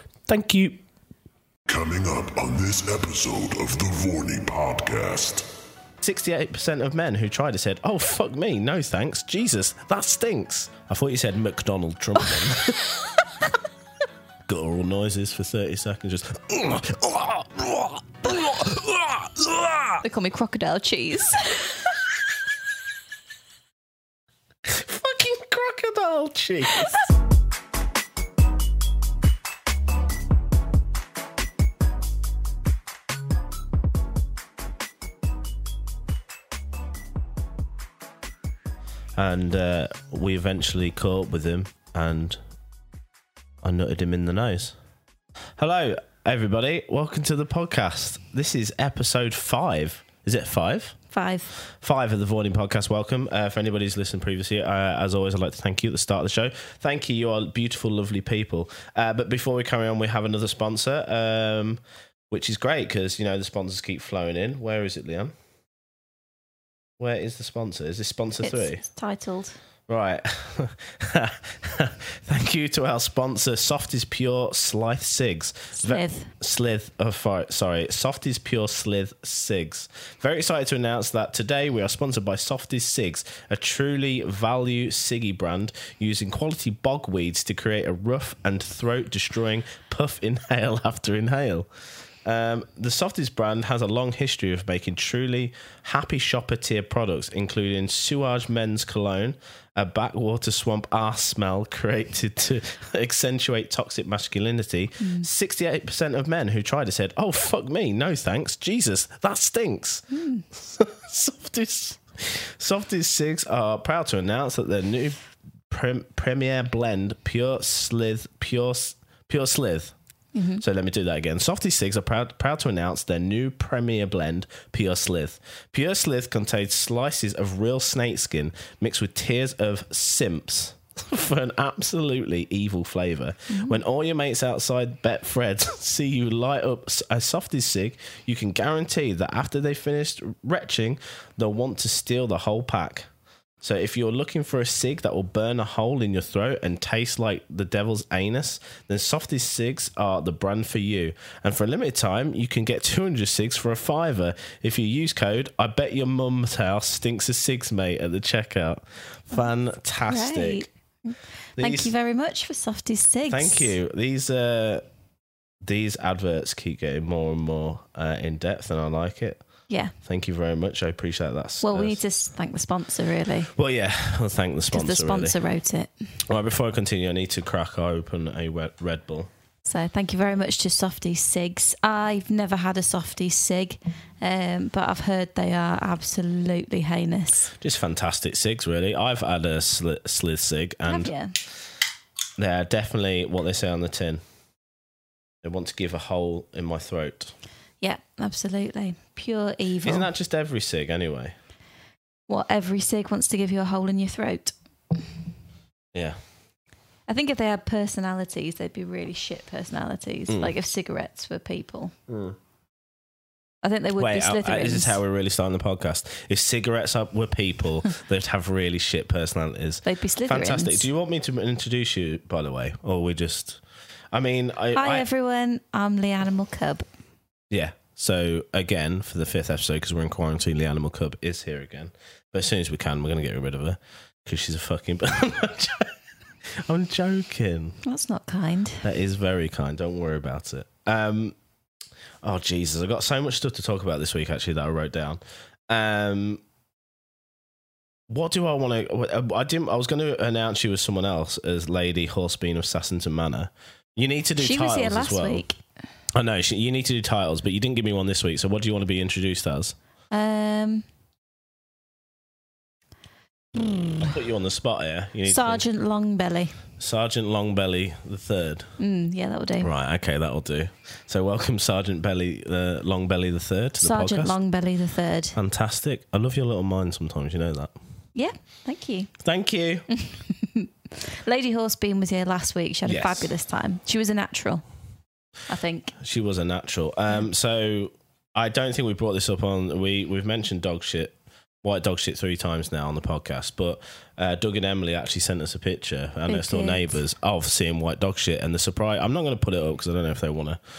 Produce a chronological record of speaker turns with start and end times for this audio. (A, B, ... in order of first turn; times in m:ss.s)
0:00.3-0:00.8 A
0:01.7-0:05.5 B
0:06.0-0:12.8 A
0:14.5-0:20.0 A
0:20.0-0:21.8 C
0:24.7-0:27.0 A
0:39.2-0:42.4 A
0:43.6-0:44.8 A
0:45.6-0:51.0 A
0:51.1-0:51.5 C
0:51.8-1:05.3 A
1:07.0-1:08.8 A
1:08.4-1:09.6 C
1:09.9-1:31.7 A
1:15.8-1:16.3 C
1:32.2-1:50.1 A
1:45.0-1:45.3 C
1:50.1-1:50.5 C
1:50.6-1:55.2 A
1:55.7-1:59.9 A
2:00.3-2:00.6 C
2:00.6-2:23.1 A
2:13.5-2:13.8 C
2:23.6-2:40.7 A
2:40.1-2:43.8 C
2:41.6-2:41.9 A
2:43.3-2:44.8 A
2:45.6-2:49.4 A
2:50.0-2:52.0 A
2:51.6-2:53.5 C
2:53.5-2:55.4 A
2:54.7-2:55.9 C
2:56.3-2:59.3 A
2:59.6-3:07.5 C
3:07.6-3:11.1 A
3:10.9-3:11.3 C
3:12.4-3:14.2 A
3:15.4-3:17.3 A
3:17.8-3:20.1 C
3:19.8-3:21.4 A
3:22.3-3:24.5 C
3:27.1-3:31.9 C
3:30.3-3:30.5 A
3:32.1-3:32.4 A
3:33.6-3:35.0 C
3:34.0-3:43.6 A
3:39.9-3:40.9 C
3:44.1-3:45.1 A
3:44.8-3:46.8 C
3:47.5-3:55.9 A
3:56.6-3:57.8 A
3:57.8-3:58.8 C
3:58.8-4:01.4 A
4:02.2-4:06.4 A
4:08.1-4:15.4 A
4:14.4-4:15.6 C
4:16.1-4:19.8 A
4:20.1-4:20.8 C
4:23.6-4:23.9 C
4:24.0-4:25.6 A
4:25.3-4:26.6 C
4:26.8-4:28.7 A
4:28.8-4:29.7 C
4:29.6-4:34.4 A
4:33.8-4:35.4 C
4:35.4-4:37.7 A
4:38.2-4:39.1 C
4:39.2-4:39.8 A
4:39.9-4:44.6 C
4:42.9-4:43.3 A
4:45.5-4:46.0 C
4:46.0-5:00.6 A
4:56.3-4:56.8 C